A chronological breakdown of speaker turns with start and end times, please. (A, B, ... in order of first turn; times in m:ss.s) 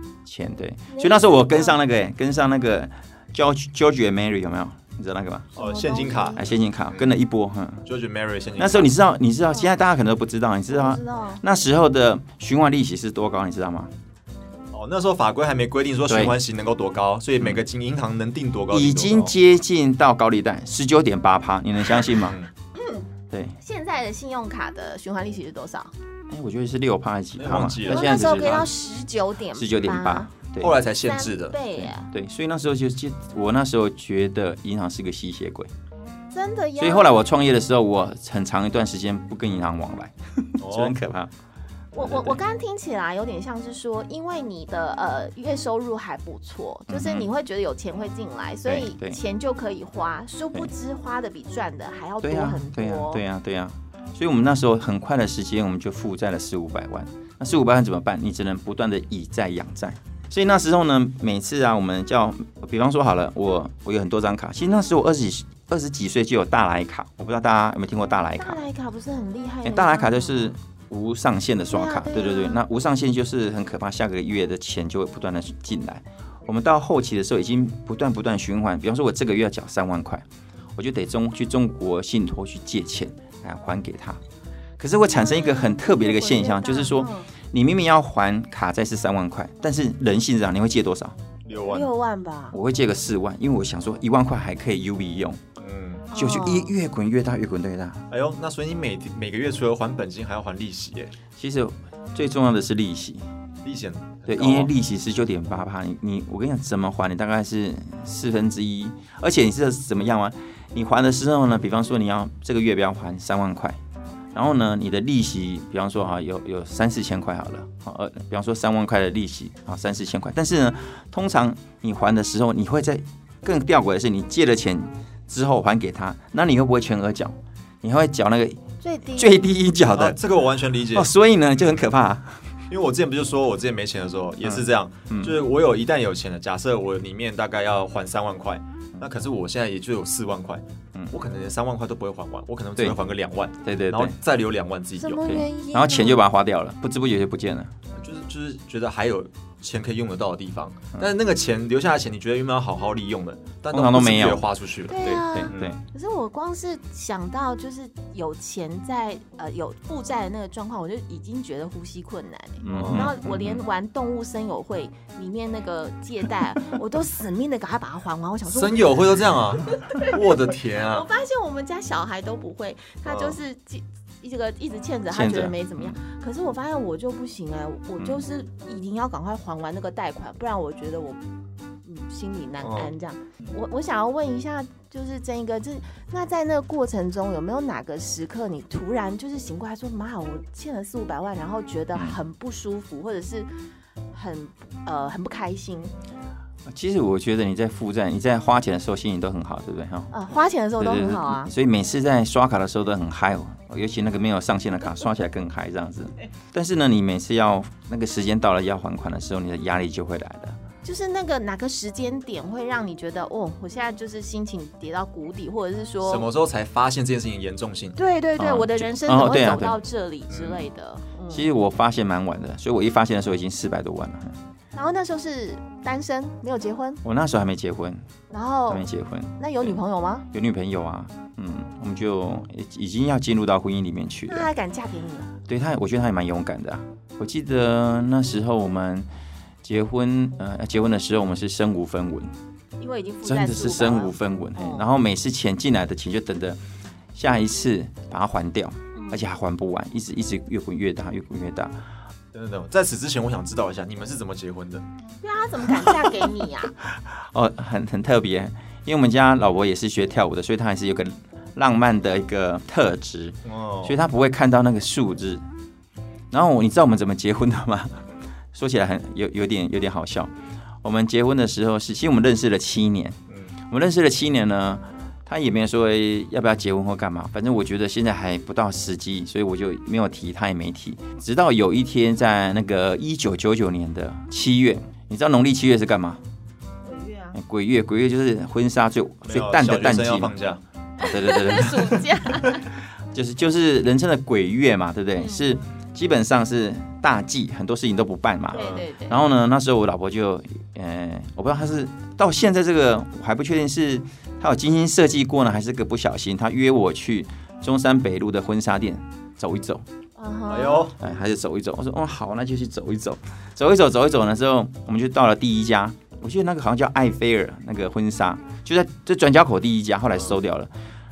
0:00.2-0:05.5 A
0:00.9-0:01.8 B
0:05.6-0:07.2 C
0:05.6-0:06.5 B
0:06.4-0:07.8 A
0:07.8-0:08.9 C
0:08.6-0:13.9 A
0:10.7-0:11.4 B
0:14.7-0:19.3 C
0:16.1-0:16.4 A
0:18.7-0:22.4 A
0:22.1-0:22.5 C
0:22.8-0:23.0 B
0:23.3-0:23.6 A
0:23.6-0:25.9 B
0:26.3-0:28.7 A
0:27.4-0:28.7 C
0:27.8-0:30.3 B
0:29.5-0:30.8 A
0:30.6-0:31.6 C
0:31.0-0:32.1 B
0:31.8-0:35.7 A
0:36.3-0:37.2 B
0:36.8-0:41.3 A
0:40.6-0:41.0 C
0:41.9-0:53.2 B
0:42.0-0:42.4 A
0:46.9-0:47.3 A
0:48.6-0:49.2 A
0:52.2-1:08.6 A
1:08.4-1:10.5 B
1:09.6-1:24.2 A
1:11.7-1:12.6 B
1:24.8-1:31.2 A
1:25.0-1:27.3 B
1:31.4-1:31.9 C
1:31.6-1:32.6 B
1:32.5-1:35.4 A
1:35.6-1:36.1 C
1:36.1-1:36.7 B
1:36.1-1:38.0 A
1:38.1-1:41.1 C
1:41.4-1:43.2 A
1:43.6-1:44.7 C
1:44.2-1:53.8 A
1:54.3-2:10.2 A
2:08.8-2:09.4 B
2:09.9-2:11.1 C
2:10.9-2:12.6 A
2:12.7-2:25.2 C
2:14.4-2:15.4 A
2:23.6-2:24.1 A
2:25.0-2:26.2 B
2:25.2-2:27.7 A
2:28.0-2:35.7 C
2:33.7-2:35.8 A
2:34.9-3:01.2 B
2:42.6-2:43.6 A
2:42.7-2:43.1 C
2:48.4-2:51.1 C
2:53.0-2:53.4 C
2:55.1-2:56.0 A
3:01.8-3:13.5 B
3:02.6-3:02.9 C
3:14.1-3:15.9 B
3:16.6-3:20.1 A
3:20.1-3:21.5 B
3:20.8-3:30.6 A
3:30.8-3:36.3 B
3:36.0-3:38.0 C
3:38.0-3:41.5 B
3:38.4-3:39.8 A
3:40.3-3:40.6 C
3:41.3-3:44.4 A
3:44.7-3:47.0 B
3:47.0-3:48.0 A
3:48.3-3:48.8 B
3:48.7-3:49.8 A
3:49.4-3:50.2 B
3:50.3-3:54.5 A
3:54.3-3:55.3 B
3:55.5-3:59.1 A
3:59.6-4:02.3 A
4:02.8-4:04.9 B
4:03.2-4:06.6 A
4:07.1-4:11.8 A
4:08.9-4:09.2 B
4:12.3-4:14.8 C
4:15.2-4:16.8 B
4:16.8-4:25.4 A
4:23.4-4:24.0 C
4:26.3-4:30.3 A
4:30.8-4:46.2 A
4:33.3-4:33.5 C
4:46.8-4:47.4 B
4:47.3-4:50.3 A
4:49.2-4:50.6 C
4:51.0-4:52.0 A
4:51.0-4:52.7 B
4:53.1-5:09.8 A
4:55.2-4:55.5 B
4:58.5-4:59.2 B
4:58.5-4:58.8 C
5:10.2-5:10.9 B
5:10.5-5:10.9 C
5:11.0-5:20.7 A